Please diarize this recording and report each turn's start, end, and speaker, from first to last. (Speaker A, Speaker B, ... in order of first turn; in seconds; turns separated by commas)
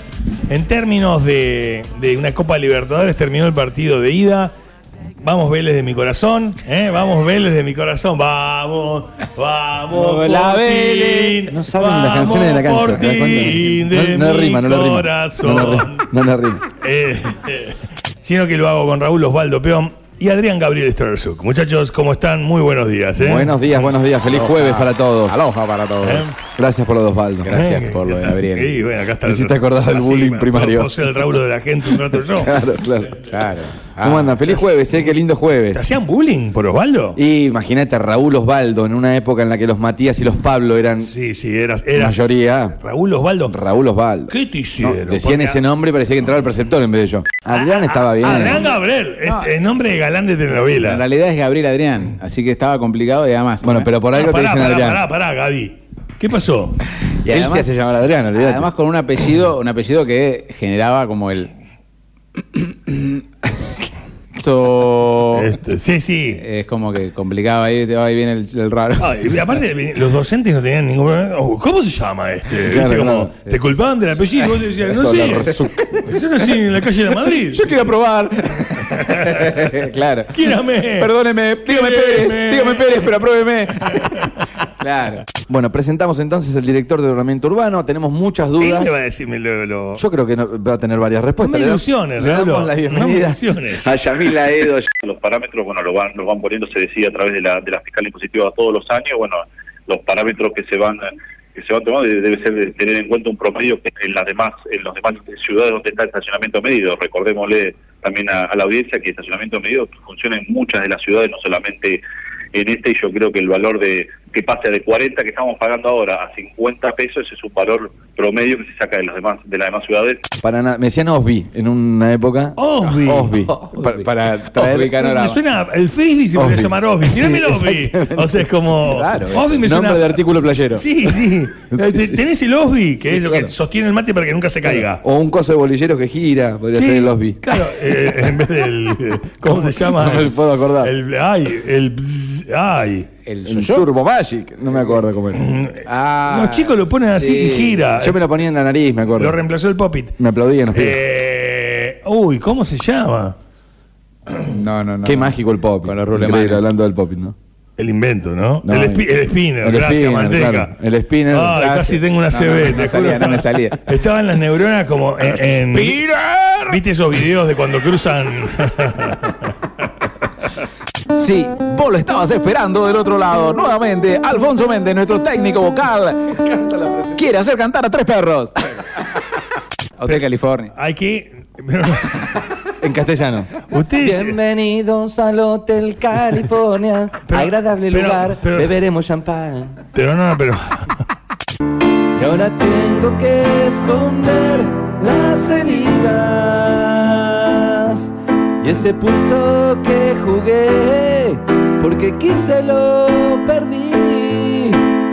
Speaker A: 0.5-4.5, Speaker A: 5.2-16.1, Speaker B: 9.9-11.5, Speaker C: 11.5-16.6, Speaker A: 16.8-23.9, Speaker C: 23.2-25.4, Speaker B: 24.3-26.3, Speaker A: 26.0-26.4, Speaker C: 26.6-27.6, Speaker B: 27.4-28.8, Speaker A: 27.5-32.6, Speaker C: 29.2-30.9, Speaker C: 32.4-33.2, Speaker B: 33.2-34.3, Speaker C: 34.0-35.9, Speaker A: 34.5-35.1, Speaker A: 35.7-37.2, Speaker C: 37.2-41.1, Speaker A: 41.0-43.5, Speaker C: 42.0-42.8, Speaker C: 43.5-48.7, Speaker A: 44.3-45.6, Speaker A: 47.5-51.0, Speaker B: 48.2-49.5, Speaker B: 50.8-53.9, Speaker C: 53.6-55.0, Speaker A: 54.1-56.9, Speaker B: 57.2-57.7, Speaker C: 57.2-58.7, Speaker B: 58.3-61.5, Speaker B: 62.5-63.2, Speaker B: 64.3-65.5, Speaker A: 65.3-66.4, Speaker B: 66.4-69.2, Speaker A: 69.0-77.7, Speaker C: 72.5-73.3, Speaker C: 74.8-76.0, Speaker B: 77.1-84.3, Speaker A: 78.6-79.7, Speaker A: 80.3-83.1, Speaker A: 83.9-84.3, Speaker B: 84.8-85.2, Speaker C: 85.4-89.0, Speaker A: 88.6-90.0, Speaker C: 90.0-94.9, Speaker A: 91.4-94.0, Speaker B: 95.0-96.0, Speaker D: 95.2-99.4, Speaker B: 98.1-99.3, Speaker D: 99.9-101.0, Speaker B: 99.9-101.0, Speaker B: 101.5-104.0, Speaker D: 101.6-112.0, Speaker B: 105.2-106.5, Speaker B: 107.8-108.5, Speaker D: 112.5-120.2, Speaker B: 113.3-120.2, Speaker C: 120.4-124.9, Speaker A: 122.6-123.5, Speaker B: 123.6-125.4, Speaker A: 124.7-135.0, Speaker C: 126.4-128.4, Speaker B: 128.8-129.6, Speaker C: 129.5-132.1, Speaker C: 134.9-137.6, Speaker A: 136.7-143.1, Speaker C: 139.5-140.9, Speaker B: 143.2-143.9, Speaker C: 143.4-145.5, Speaker A: 145.3-148.2, Speaker B: 145.8-147.9, Speaker C: 147.9-149.4, Speaker A: 149.1-150.2, Speaker C: 150.2-151.0, Speaker A: 150.7-153.3, Speaker B: 154.4-156.7, Speaker C: 155.0-157.3, Speaker A: 157.8-160.8, Speaker C: 158.6-159.1, Speaker C: 159.6-161.6, Speaker A: 161.3-166.0, Speaker B: 161.5-163.8, Speaker B: 165.7-166.8, Speaker A: 166.7-169.5, Speaker B: 171.1-176.4, Speaker C: 176.3-177.2, Speaker B: 177.1-178.7, Speaker B: 180.0-180.7, Speaker A: 180.8-182.3, Speaker C: 182.8-183.5, Speaker A: 183.6-184.4, Speaker C: 184.0-189.8, Speaker A: 187.3-188.8, Speaker A: 189.9-191.0, Speaker C: 192.2-204.8